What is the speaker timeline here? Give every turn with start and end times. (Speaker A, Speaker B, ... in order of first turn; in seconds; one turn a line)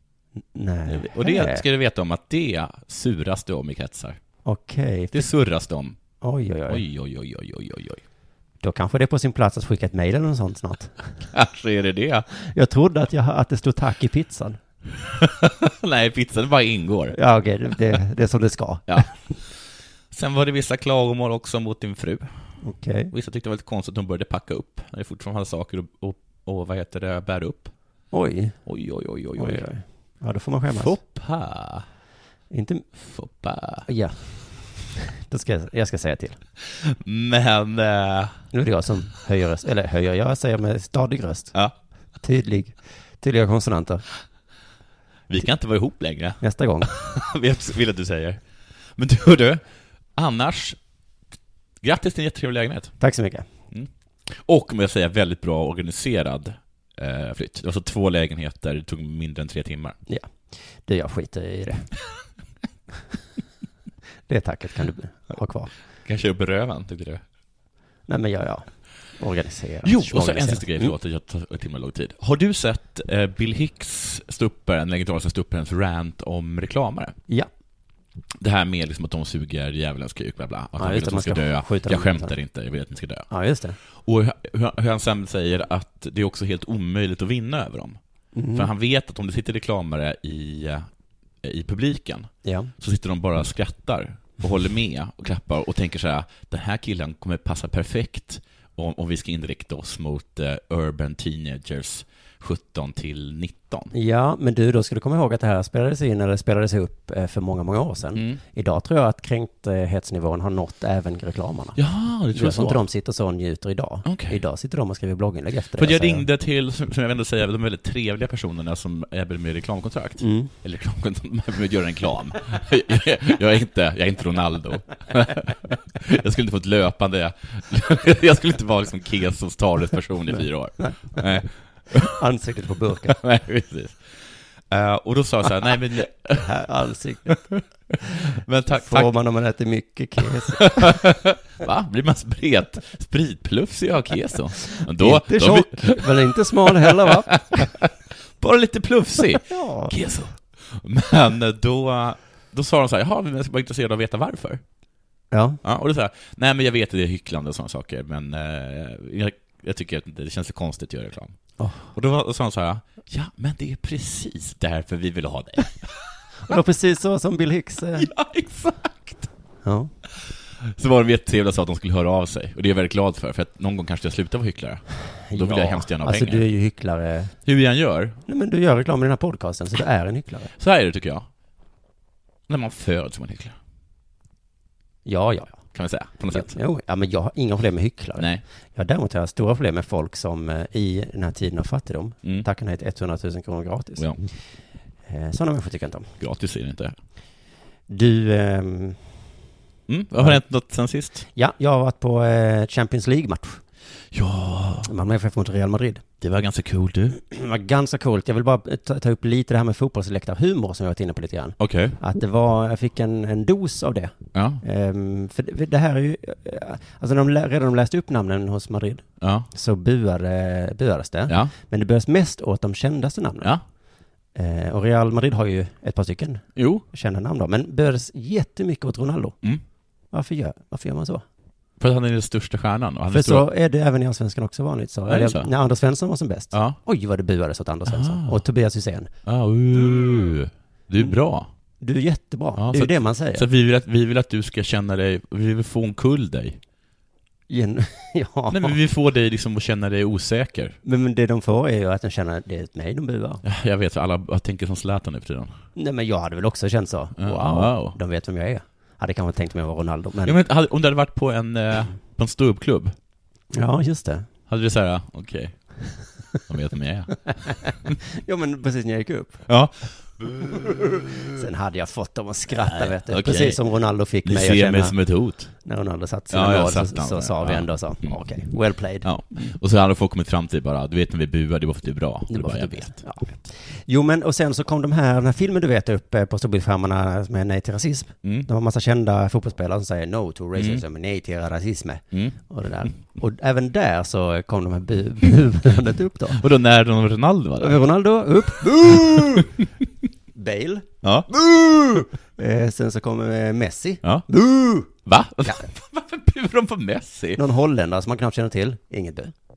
Speaker A: 0.4-1.6
Speaker B: 0.9-4.4
Speaker A: 4.4-5.6
Speaker B: 5.1-8.0
Speaker A: 6.2-6.8
Speaker A: 8.6-11.1
Speaker B: 11.3-12.3
Speaker A: 12.4-14.6
Speaker B: 15.2-17.2
Speaker A: 17.1-19.3
Speaker B: 18.9-27.8
Speaker A: 22.6-23.1
Speaker A: 28.1-28.8
Speaker B: 28.6-29.9
Speaker A: 29.3-31.0
Speaker B: 30.7-31.9
Speaker A: 32.5-33.0
Speaker B: 33.0-33.9
Speaker A: 33.9-36.4
Speaker B: 36.7-38.4
Speaker A: 38.5-41.6
Speaker A: 42.2-44.0
Speaker B: 45.3-49.6
Speaker A: 46.4-46.9
Speaker B: 50.1-50.8
Speaker B: 51.8-53.0
Speaker A: 53.0-53.5
Speaker B: 53.7-60.0
Speaker A: 60.1-62.0
Speaker A: 64.3-65.7
Speaker B: 66.0-67.2
Speaker A: 68.1-71.0
Speaker B: 69.8-77.2
Speaker B: 78.4-83.3
Speaker A: 80.8-82.3
Speaker A: 83.3-83.8
Speaker B: 83.8-88.0
Speaker A: 88.3-88.7
Speaker B: 88.5-90.9
Speaker B: 91.4-103.9
Speaker A: 92.4-92.7
Speaker A: 103.9-116.2
Speaker B: 108.1-108.4
Speaker B: 111.8-112.8
Speaker B: 114.0-114.4
Speaker B: 115.8-132.2
Speaker A: 120.2-120.5
Speaker A: 130.4-131.3
Speaker A: 132.0-133.2
Speaker B: 133.1-136.5
Speaker A: 136.4-137.5
Speaker B: 137.3-137.6
Speaker B: 138.4-139.1
Speaker A: 138.7-141.1
Speaker B: 140.6-146.3
Speaker A: 144.8-147.7
Speaker B: 146.9-154.6
Speaker A: 149.5-149.9
Speaker A: 155.3-155.6
Speaker B: 155.6-165.9
Speaker A: 161.6-161.9
Speaker A: 166.4-168.1
Speaker B: 168.0-169.3
Speaker A: 169.6-169.9
Speaker B: 170.3-176.5
Speaker A: 175.2-177.5
Speaker B: 177.4-178.2
Speaker A: 178.3-180.5
Speaker B: 180.6-181.3
Speaker B: 182.5-183.6
Speaker A: 185.1-196.1
Speaker B: 185.7-186.6
Speaker B: 188.2-188.4
Speaker B: 194.0-194.3
Speaker B: 196.2-197.0
Speaker A: 197.9-199.2
Speaker B: 199.9-201.3
Speaker A: 200.2-203.7
Speaker B: 204.1-204.9
Speaker A: 204.8-206.0
Speaker B: 206.2-207.2
Speaker A: 207.3-223.7
Speaker B: 211.6-212.0
Speaker B: 214.3-214.6
Speaker B: 219.2-219.5
Speaker B: 221.3-221.5
Speaker A: 224.3-231.2
Speaker B: 226.6-226.8
Speaker B: 231.8-233.5
Speaker A: 233.1-239.1
Speaker B: 235.1-235.5
Speaker B: 236.5-236.8
Speaker B: 237.9-238.4
Speaker B: 239.2-241.5
Speaker A: 241.8-243.5
Speaker B: 242.6-246.6
Speaker A: 247.5-248.8
Speaker B: 248.5-250.8
Speaker A: 250.8-253.4
Speaker B: 253.4-255.5
Speaker A: 255.8-260.4
Speaker B: 257.2-258.0
Speaker B: 260.2-262.9
Speaker A: 263.5-264.3
Speaker B: 264.5-268.0
Speaker A: 268.2-269.6
Speaker B: 269.5-271.1
Speaker A: 271.3-279.1
Speaker B: 272.5-273.6
Speaker B: 274.1-275.6
Speaker B: 276.3-283.1
Speaker A: 282.3-296.4
Speaker B: 288.2-288.5
Speaker B: 290.6-290.8
Speaker B: 292.1-292.9
Speaker B: 296.3-297.8
Speaker A: 297.6-299.5
Speaker B: 298.8-299.4
Speaker A: 300.3-300.9
Speaker B: 301.0-302.1
Speaker A: 302.4-304.9
Speaker B: 304.8-307.4
Speaker A: 307.4-309.3